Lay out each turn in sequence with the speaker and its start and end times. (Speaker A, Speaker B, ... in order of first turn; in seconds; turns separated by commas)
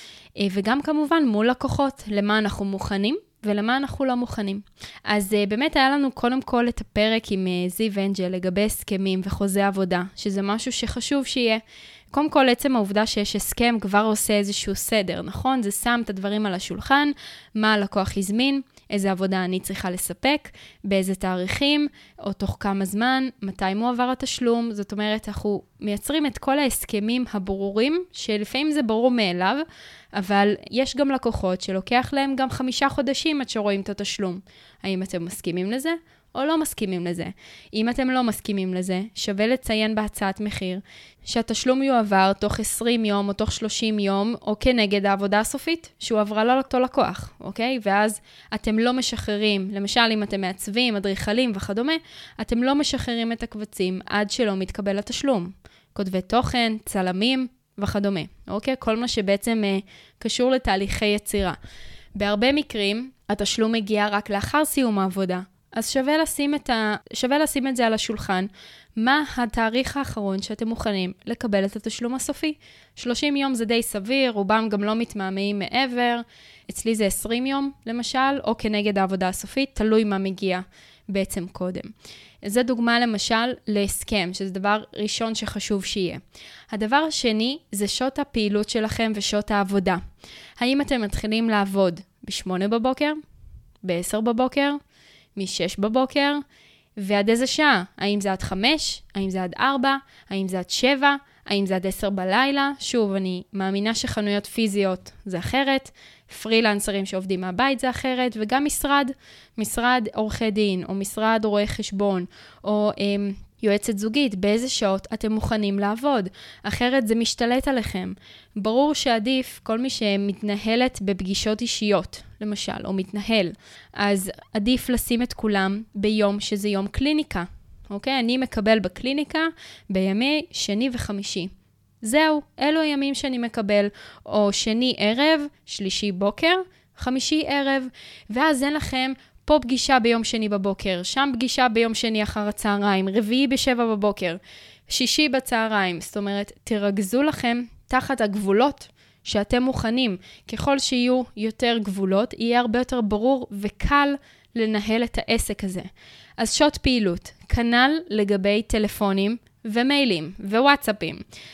Speaker A: 0.4-61.6, Speaker A: 62.1-90.0, Speaker A: 90.6-93.2, Speaker A: 93.8-94.8, Speaker A: 95.4-96.4, Speaker A: 97.0-161.2